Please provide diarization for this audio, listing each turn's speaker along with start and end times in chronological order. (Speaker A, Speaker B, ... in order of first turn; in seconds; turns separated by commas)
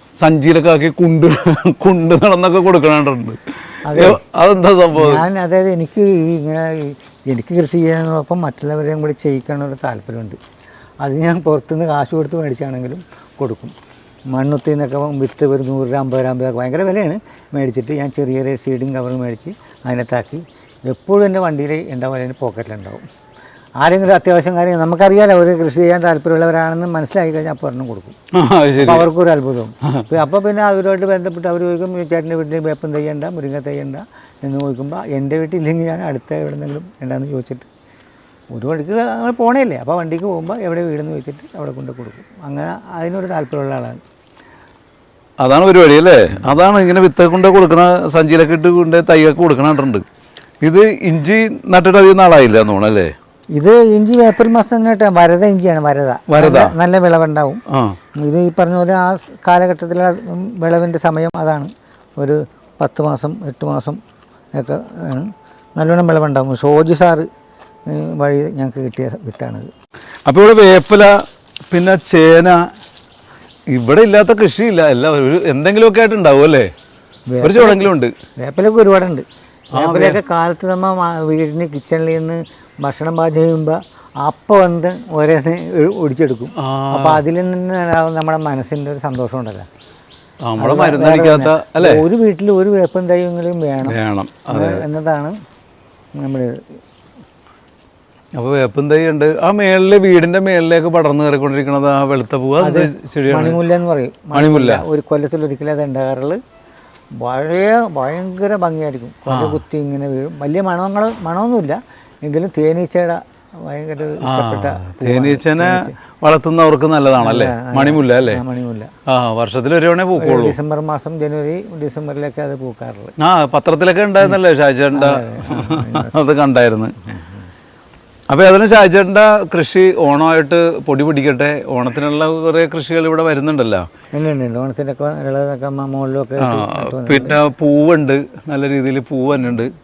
Speaker A: 0.2-5.2, Speaker B: 3.9-4.2, Speaker B: 4.9-10.4, Speaker B: 11.0-13.7, Speaker B: 14.3-23.0, Speaker B: 23.8-28.1, Speaker A: 28.3-29.1, Speaker B: 28.8-37.7, Speaker B: 38.5-44.0, Speaker A: 45.4-50.0, Speaker A: 50.6-53.1, Speaker B: 53.5-57.6, Speaker A: 56.3-56.7, Speaker A: 57.7-58.0, Speaker B: 58.2-64.0, Speaker B: 64.5-67.3, Speaker B: 67.9-69.7, Speaker A: 70.3-71.2, Speaker A: 71.7-72.6, Speaker A: 73.7-76.7, Speaker B: 77.3-89.7, Speaker A: 77.4-78.1, Speaker A: 79.7-80.2, Speaker A: 86.6-87.2, Speaker A: 90.5-92.1, Speaker B: 90.6-94.0, Speaker A: 93.8-94.8, Speaker B: 94.5-95.3, Speaker B: 96.2-96.6, Speaker A: 98.4-103.6, Speaker B: 102.6-106.4, Speaker A: 104.3-104.8, Speaker B: 107.2-115.9, Speaker A: 109.3-109.6, Speaker A: 114.2-118.4, Speaker B: 117.2-118.9, Speaker A: 119.1-120.6, Speaker B: 120.2-123.1, Speaker A: 123.2-127.0, Speaker B: 124.9-126.2, Speaker A: 128.3-133.9, Speaker B: 134.1-137.4, Speaker A: 136.4-139.7